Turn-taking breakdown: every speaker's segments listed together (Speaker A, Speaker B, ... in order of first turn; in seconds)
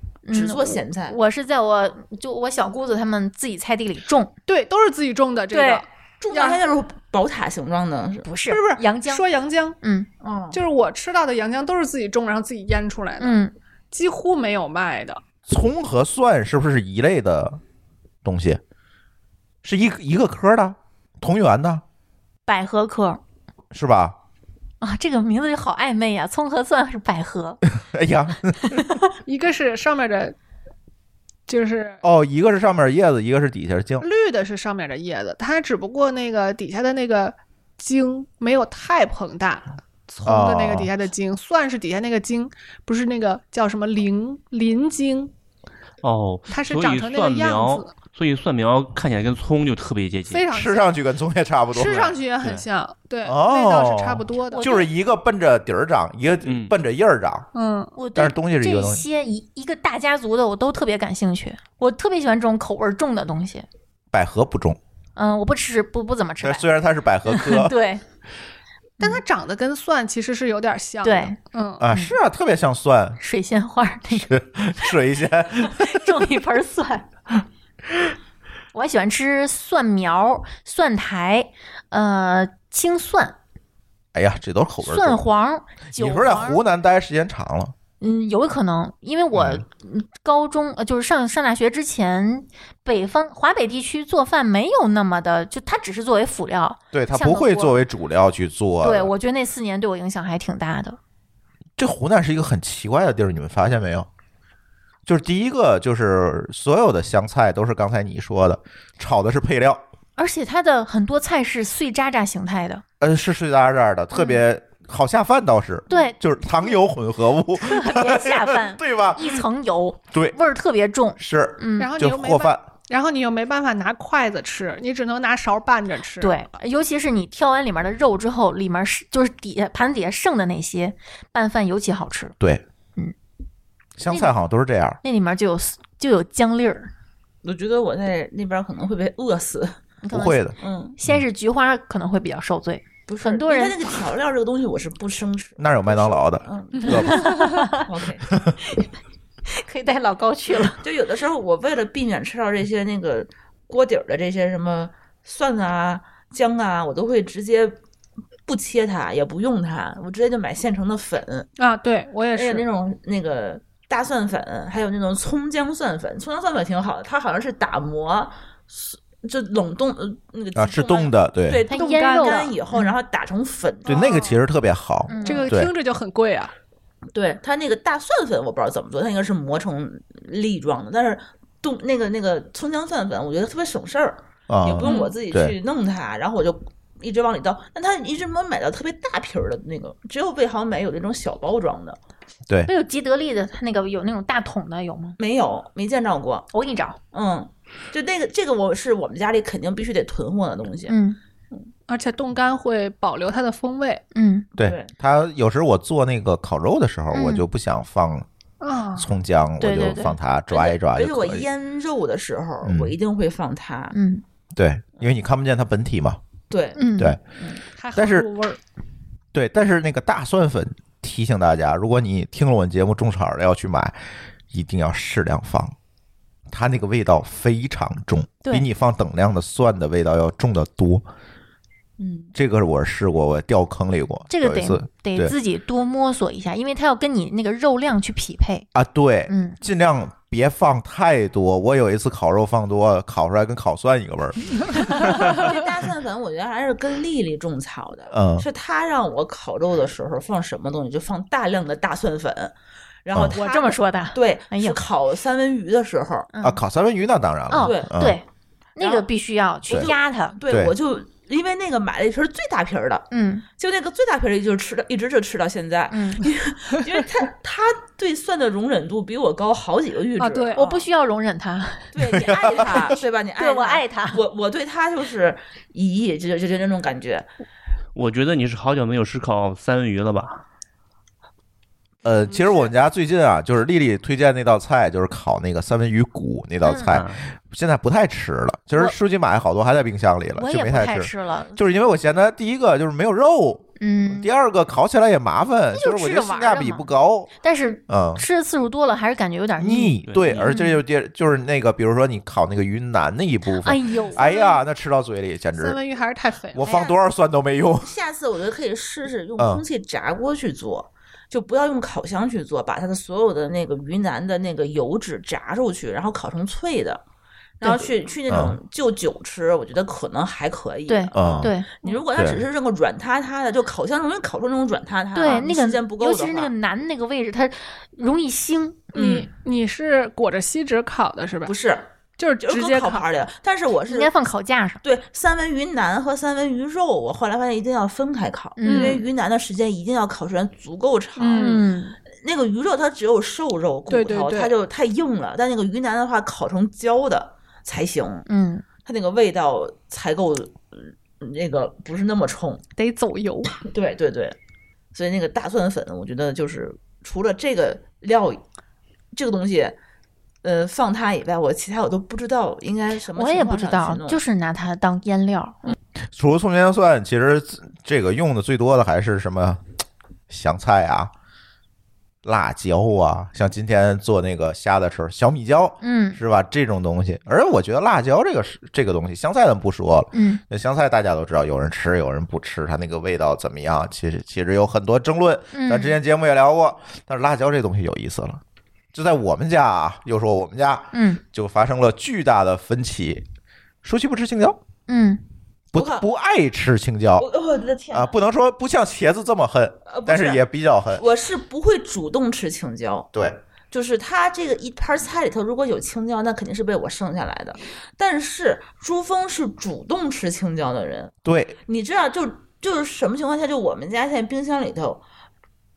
Speaker A: 0.3-4.3, 5.5-5.8, 8.2-9.2, 9.8-10.1, 13.2-13.5, 22.5-23.2, 24.8-27.6, 54.5-54.9, 58.0-63.6, 65.2-66.7, 67.3-68.0, 71.0-71.4, 71.9-72.2, 73.2-74.3, 75.8-77.1, 78.7-83.3, 84.8-86.6, 88.0-97.8, 98.8-101.0, 110.2-112.8, 115.9-116.8, 117.5-121.9, 126.2-132.3, 134.1-134.4, 135.0-136.9, 140.0-140.4, 141.0-143.8, 146.9-147.9, 149.6-150.8, 171.7-172.9, 175.1-175.6, 184.8-185.1, 192.7-195.2, 196.5-197.0, 200.9-201.2, 204.1-204.5, 207.1-207.4, 209.6-210.2, 213.9-214.2, 216.8-217.2, 234.3-238.7, 239.3-239.6, 253.3-254.8, 256.3-256.6, 257.5-258.2, 258.8-260.4, 263.1-263.4, 265.9-266.3, 270.5-274.2, 286.6-286.9, 290.4-291.6, 293.8-294.3, 295.7-296.9, 297.4-300.8, 303.6-304.6, 320.9-321.7, 325.1-329.3, 333.9-334.8, 338.6-339.0, 341.4-341.9, 348.3-348.6, 363.1-365.6, 375.8-376.2, 380.1-380.4, 385.5-386.0, 390.9-391.2, 394.9-395.2
Speaker B: 0.3-1.2, 6.2-8.3, 10.2-10.6, 137.4-139.8, 140.6-140.9, 143.1-148.3, 150.8-157.7, 158.5-161.5, 162.3-174.2, 177.1-192.0, 195.2-196.5, 197.1-200.9, 204.6-204.9, 210.5-213.9, 216.5-217.6, 232.0-232.3, 244.9-256.3, 257.6-258.0, 258.8-259.1, 259.7-270.9, 271.9-277.3, 306.6-307.0, 307.8-317.0, 317.6-326.5, 331.4-331.9, 332.4-334.1, 334.8-348.2, 348.8-352.6, 353.6-354.4, 354.9-358.4, 359.1-359.8, 360.4-364.2, 395.7-396.1, 397.2-398.1, 399.9-400.4, 400.9-403.1, 403.7-411.1, 411.7-415.0
Speaker C: 4.5-6.6, 8.5-9.8, 10.5-13.4, 13.9-15.2, 29.2-30.3, 31.5-32.0, 34.0-45.3, 46.5-47.9, 50.3-50.9, 51.7-54.8, 57.5-57.9, 69.0-71.8, 121.8-126.4, 161.6-162.6, 171.7-172.5, 173.8-174.4, 175.2-176.5, 201.9-204.0, 208.6-209.1, 217.8-218.6, 253.4-253.7, 270.2-270.6, 305.6-306.7, 328.9-331.5, 332.2-333.0, 338.6-339.0, 341.2-341.7, 343.9-344.5, 352.8-353.6
Speaker D: 15.5-17.6, 18.2-18.6, 19.6-21.8, 23.7-24.1, 27.8-28.9, 32.0-34.1, 40.2-40.9, 50.5-52.2, 53.2-57.5, 58.1-59.0, 64.1-64.8, 66.4-67.7, 71.8-73.2, 74.1-76.2, 84.1-85.2, 85.9-87.7, 89.3-89.6, 96.9-99.1, 101.8-104.1, 105.0-109.8, 113.0-119.4, 120.1-120.4, 121.2-122.6, 134.0-135.0, 140.1-140.5, 145.6-147.2, 170.6-171.6, 173.8-175.7, 184.5-185.5, 204.6-208.2, 208.9-211.5, 212.6-212.9, 214.5-216.2, 217.9-218.3, 219.3-224.0, 224.5-225.7, 226.5-231.0, 232.3-235.3, 238.7-245.2, 248.1-248.4, 256.4-258.2, 272.1-272.9, 282.0-297.3, 297.9-298.2, 299.6-305.8, 306.5-307.9, 309.4-309.6, 318.3-318.5, 321.1-321.5, 322.1-322.4, 366.1-369.6, 370.3-371.1, 372.2-388.4, 388.9-393.2, 393.8-394.6, 395.7-397.3, 397.9-401.0, 411.2-411.5
Speaker E: 46.0-50.5, 56.4-56.7, 277.9-280.4, 286.9-287.2, 300.1-300.6